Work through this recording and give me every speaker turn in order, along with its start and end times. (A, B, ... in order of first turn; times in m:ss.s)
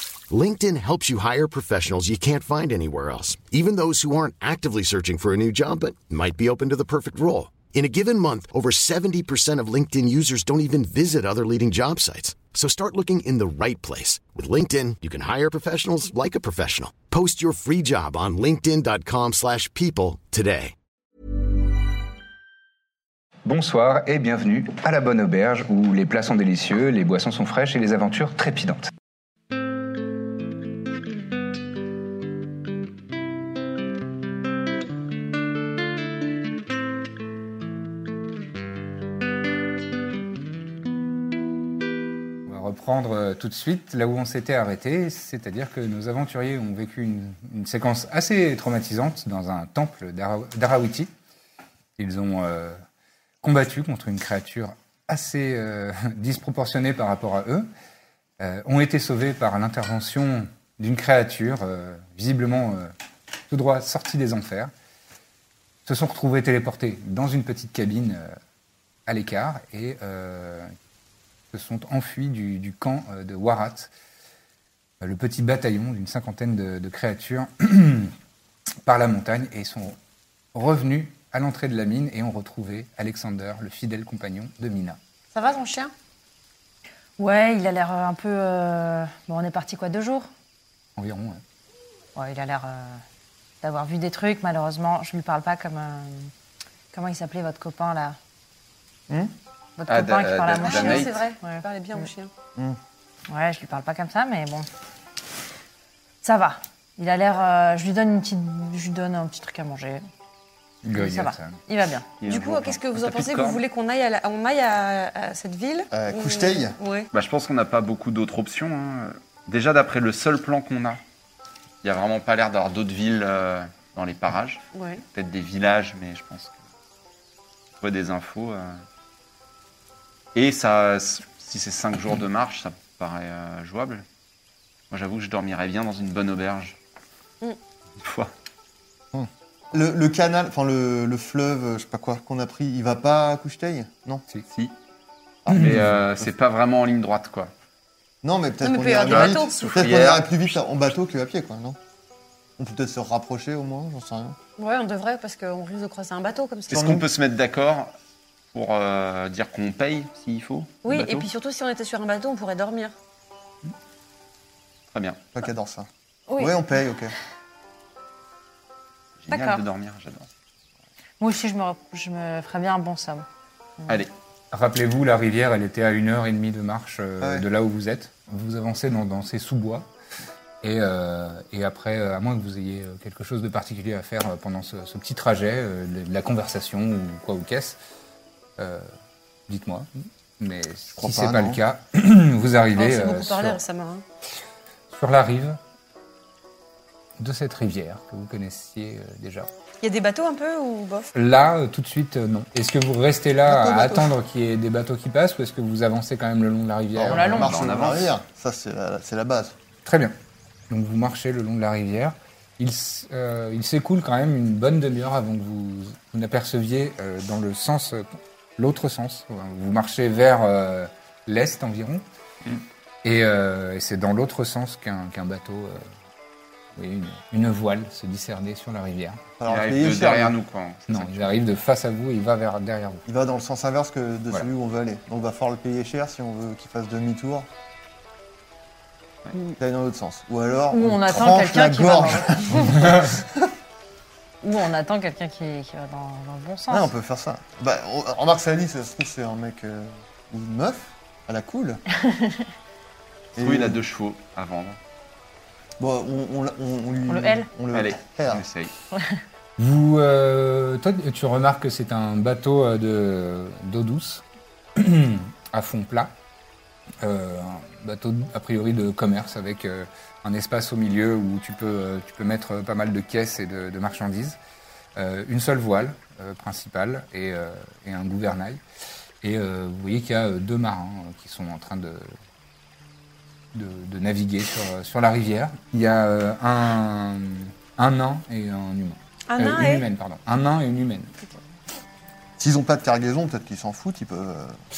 0:00.3-0:20.7 A
0:23.4-0:28.9 B
0:42.5-0:51.1 B
0:52.0-0:52.8 B
0:53.4-0:57.7 B
0:58.4-1:02.9 B
1:03.5-1:04.7 B
1:05.9-1:08.4 B
1:09.1-1:10.7 B
1:11.5-1:13.9 B
1:15.0-1:18.1 B
1:18.8-1:20.0 B
1:20.5-1:25.0 B
1:25.4-1:25.9 C
1:27.2-1:30.3 D
1:31.0-1:31.4 B
1:32.2-1:33.0 D
1:33.6-1:36.3 D
1:36.9-1:38.2 D
1:39.8-1:41.6 D
1:39.9-1:41.1 E
1:40.6-1:42.3 C
1:43.3-1:44.7 D
1:46.2-1:50.0 D
1:50.8-1:51.6 B
1:50.9-1:52.1 D
1:52.2-1:53.6 E
1:52.2-1:57.1 C
1:55.9-1:56.8 F
1:57.1-2:01.0 E
2:01.8-2:06.6 E
2:04.7-2:05.0 C
2:07.8-2:08.8 E
2:10.4-2:14.0 E
2:14.9-2:16.8 E
2:18.0-2:18.3 E
2:19.1-2:24.2 F
2:25.4-2:26.3 F
2:25.5-2:25.9 B
2:25.5-2:27.5 E
2:28.2-2:31.8 F
2:28.6-2:29.7 C
2:29.1-2:30.5 E
2:32.6-2:34.4 F
2:34.6-2:36.8 C
2:36.7-2:37.0 F
2:36.7-2:37.9 E
2:38.5-2:41.3 E
2:40.8-2:42.9 C
2:44.9-2:45.2 E
2:45.3-2:47.2 F
2:49.2-2:50.3 E
2:49.3-2:49.6 D
2:51.2-2:53.3 D
2:54.5-2:59.9 B
2:57.2-2:57.5 F
3:00.6-3:07.8 B
3:08.6-3:08.9 B
3:09.5-3:13.6 B
3:11.0-3:11.6 F
3:12.8-3:14.0 C
3:14.9-3:15.6 B
3:17.2-3:19.5 B
3:19.8-3:21.1 C
3:21.1-3:27.5 B
3:23.5-3:24.0 C
3:27.0-3:29.6 F
3:27.1-3:28.1 E
3:29.8-3:30.2 B
3:30.7-3:38.1 B
3:38.6-3:42.0 B
3:43.0-3:45.9 B
3:46.8-3:49.2 B
3:49.4-3:50.4 F
3:49.5-3:51.4 E
3:50.9-3:53.1 B
3:53.1-3:57.5 F
3:59.6-4:03.5 F
4:00.7-4:02.9 D
4:04.4-4:06.9 D
4:06.7-4:11.8 F
4:12.0-4:12.5 D
4:13.4-4:13.8 F
4:13.4-4:14.8 E
4:15.8-4:18.4 F
4:17.1-4:17.5 D
4:17.7-4:18.7 E
4:18.9-4:19.2 D
4:19.6-4:24.2 B
4:24.8-4:26.1 B
4:27.0-4:34.4 B
4:35.0-4:38.6 B
4:39.2-4:42.2 B
4:43.5-4:51.1 B
4:49.3-4:49.8 C
4:52.4-4:54.6 F